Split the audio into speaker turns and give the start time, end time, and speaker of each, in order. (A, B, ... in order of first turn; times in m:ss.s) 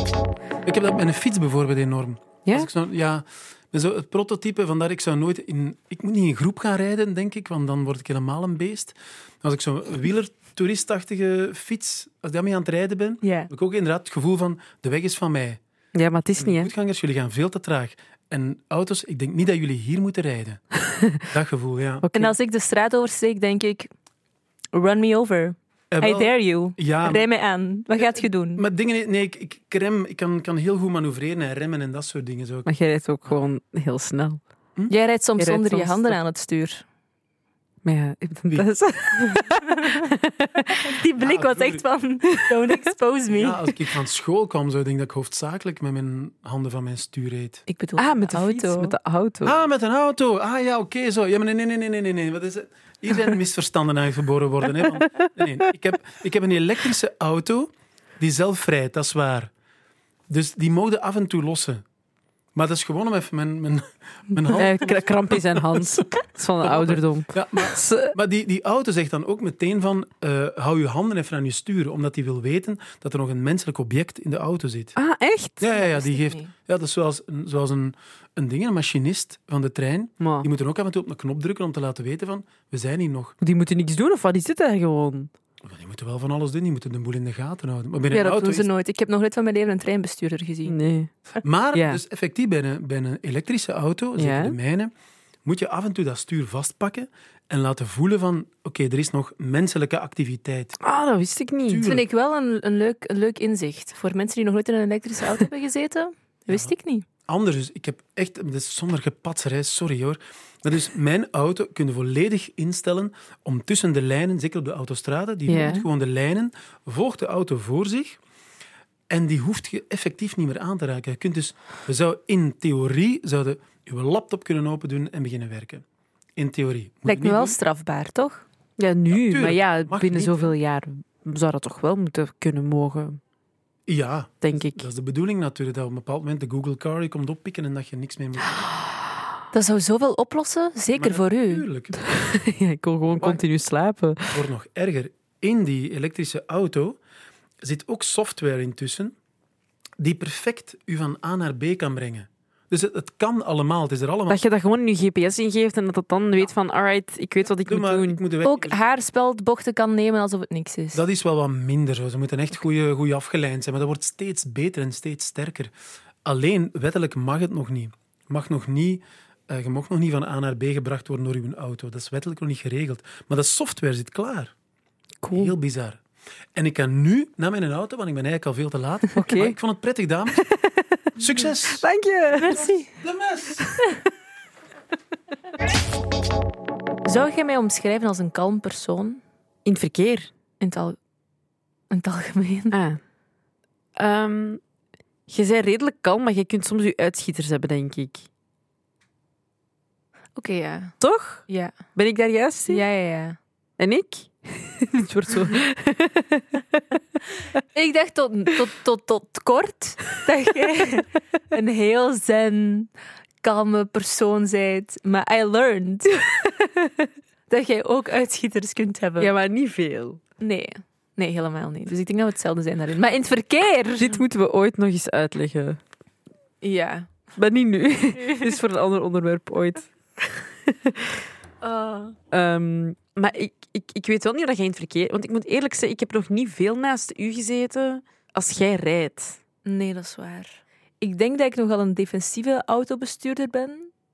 0:00.6-0:15.6 A
0:13.2-0:13.5 B
0:15.9-0:16.7 C
0:16.4-0:22.1 A
0:20.9-0:21.2 C
0:22.0-0:22.3 C
0:22.1-0:23.9 B
0:24.7-0:28.6 B
0:25.9-0:27.3 A
0:28.0-0:32.7 A
0:32.6-0:34.4 C
0:34.9-0:36.8 B
0:35.4-0:36.2 C
0:37.8-0:40.8 C
0:39.4-0:40.1 B
0:40.7-0:43.7 B
0:41.2-0:41.8 A
0:43.3-0:47.6 A
0:47.7-0:48.9 B
0:48.0-0:49.6 C
0:49.4-0:57.7 A
0:55.0-0:55.3 C
0:58.2-0:59.5 A
1:00.3-1:01.8 A
1:02.5-1:15.0 A
1:04.5-1:08.2 C
1:15.0-1:15.7 C
1:15.6-1:23.4 A
1:15.7-1:16.5 B
1:20.2-1:20.5 C
1:23.4-1:25.3 C
1:25.6-1:28.7 A
1:28.1-1:30.8 B
1:30.6-1:31.1 C
1:31.4-1:34.9 A
1:31.7-1:32.0 C
1:34.2-1:34.6 C
1:35.4-1:40.8 A
1:40.8-1:41.8 C
1:41.7-1:42.1 A
1:41.8-1:47.0 B
1:47.2-1:58.2 A
1:55.5-1:55.8 C
1:55.5-1:55.8 B
1:59.1-2:05.8 A
2:06.4-2:07.6 A
2:07.0-2:08.4 B
2:08.8-2:13.2 C
2:09.1-2:10.5 A
2:13.9-2:18.6 A
2:14.4-2:14.8 C
2:19.5-2:21.6 B
2:21.0-2:22.1 A
2:22.0-2:24.4 C
2:24.3-2:27.0 A
2:27.6-2:29.1 A
2:30.0-2:34.4 A
2:34.3-2:38.2 C
2:37.6-2:38.8 A
2:38.4-2:41.0 B
2:40.9-2:45.7 A
2:46.2-2:54.5 A
2:55.2-2:55.5 C
2:55.3-2:56.0 A
2:56.5-3:00.4 A
2:59.1-2:59.6 C
3:00.3-3:02.7 C
3:01.2-3:01.8 A
3:02.4-3:02.9 B
3:02.9-3:03.7 A
3:07.0-3:09.2 B
3:09.6-3:10.3 C
3:10.6-3:11.0 B
3:11.9-3:12.8 B
3:12.7-3:13.0 C
3:14.0-3:14.6 C
3:15.3-3:18.3 C
3:20.4-3:21.7 B
3:21.0-3:22.8 C
3:22.7-3:23.4 B
3:23.8-3:27.0 C
3:27.7-3:32.9 B
3:33.4-3:36.3 B
3:36.5-3:37.1 C
3:37.5-3:39.3 B
3:39.2-3:40.2 C
3:40.4-3:44.2 B
3:44.0-3:45.8 C
3:46.6-3:47.1 B
3:47.4-3:51.2 C
3:48.1-3:48.5 B
3:51.6-3:52.2 B
3:52.3-3:59.4 C
3:59.6-4:03.9 B